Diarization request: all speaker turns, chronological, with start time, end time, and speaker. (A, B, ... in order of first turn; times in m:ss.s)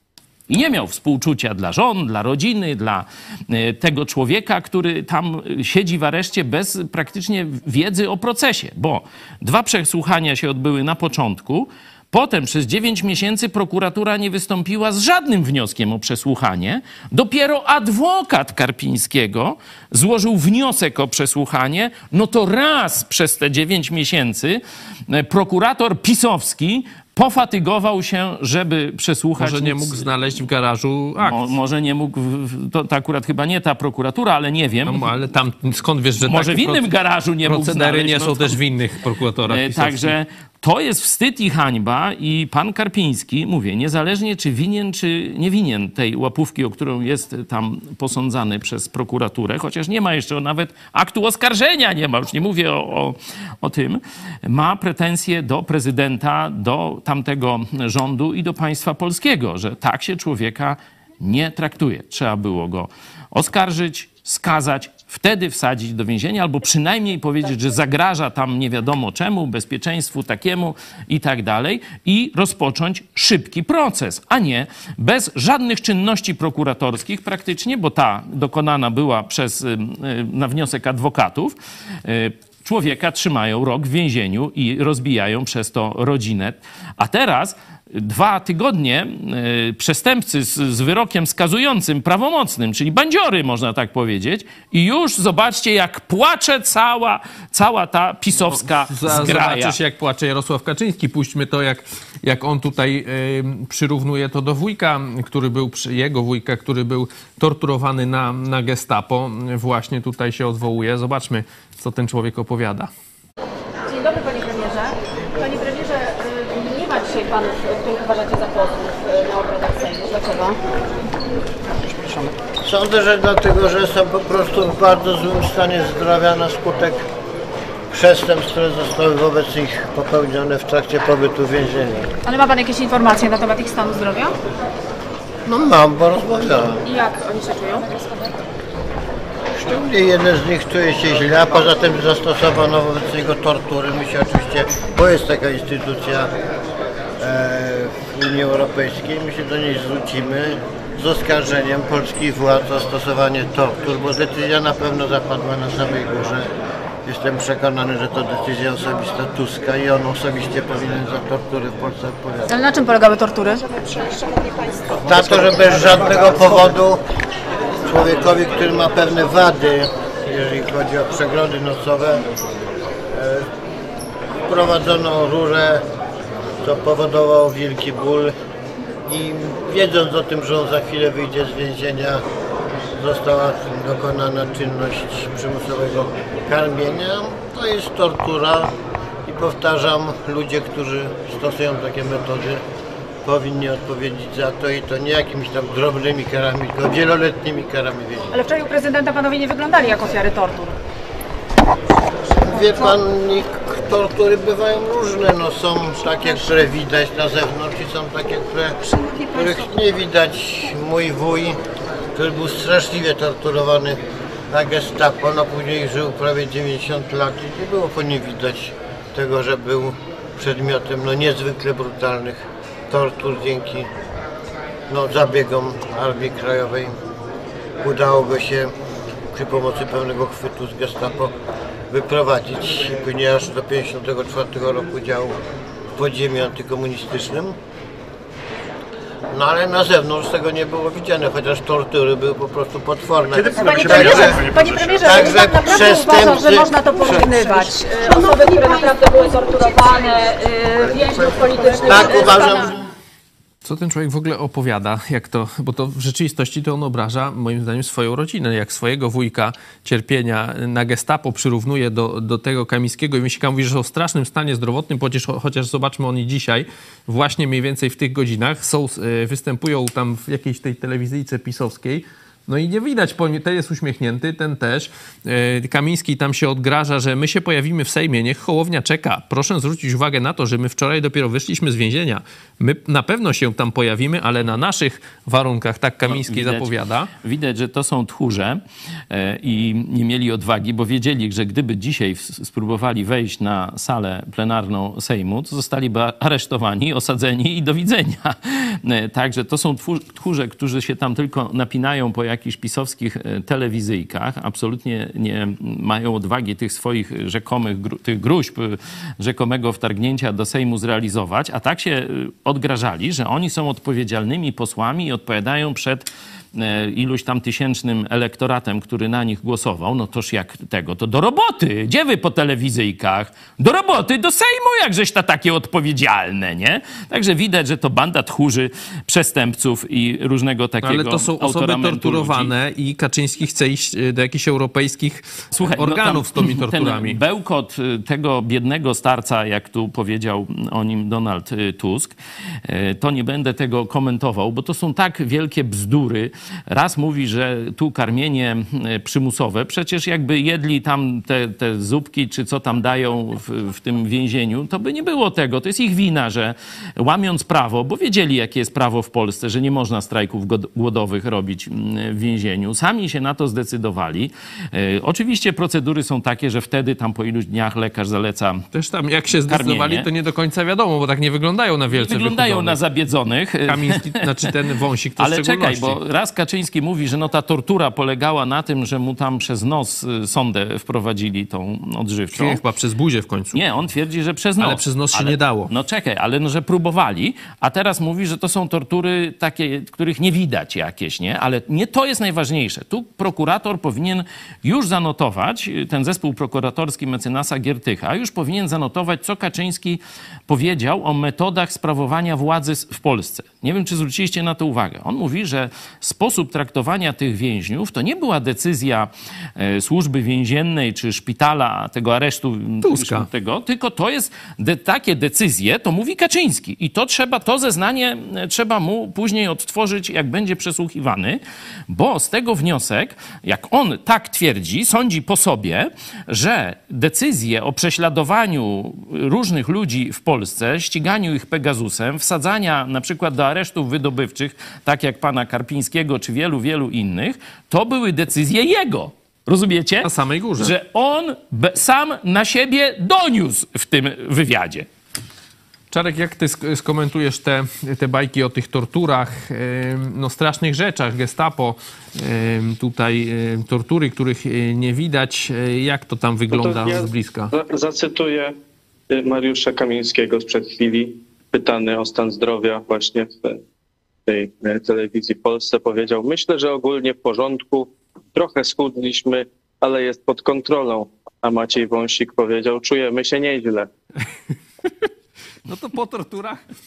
0:00.5-0:30.1 A
0:29.4-0:31.4 B
0:31.2-0:35.1 A
0:34.8-0:36.9 B
0:36.2-0:38.6 A
0:37.4-0:40.1 B
0:39.5-1:39.8 A
1:38.5-1:52.9 B
1:53.9-2:00.6 C
2:02.6-2:07.0 D
2:07.9-2:12.1 D
2:12.2-2:14.3 C
2:15.4-2:16.8 D
2:16.8-2:18.1 C
2:19.6-2:26.3 D
2:27.2-2:36.5 D
2:37.0-2:42.6 D
2:42.5-2:43.6 C
2:45.0-2:47.0 D
2:47.8-2:52.2 D
2:53.1-2:53.5 D
2:54.5-2:55.8 D
2:56.6-2:58.3 D
2:59.1-3:02.2 D
3:02.9-3:08.7 D
3:09.2-3:12.6 D
3:13.2-3:18.3 D
3:18.3-3:20.8 C
3:22.4-3:31.6 D
3:32.1-3:34.0 D
3:34.5-3:43.9 D
3:44.9-3:47.0 D
3:47.8-3:48.7 D
3:49.3-3:51.3 D
3:51.9-3:55.4 D
3:55.9-3:57.6 D
3:59.3-4:06.8 D
4:03.4-4:12.8 C
4:11.7-4:12.8 D
4:13.6-4:47.1 B
4:46.0-5:32.5 A
5:30.8-5:37.2 B
5:35.5-5:42.1 A
5:42.6-6:08.7 A
6:08.7-6:12.8 B
6:09.5-6:10.1 A
6:11.9-6:14.5 A
6:13.7-6:16.0 B
6:15.2-6:22.6 A
6:22.3-6:23.6 B
6:23.5-7:24.9 A
6:24.6-6:25.7 B
6:52.8-6:53.3 B
7:20.0-7:20.7 B
7:25.9-7:37.5 B
7:36.5-7:38.5 E
7:39.1-7:43.6 E
7:44.2-7:53.9 E
7:55.6-7:56.6 B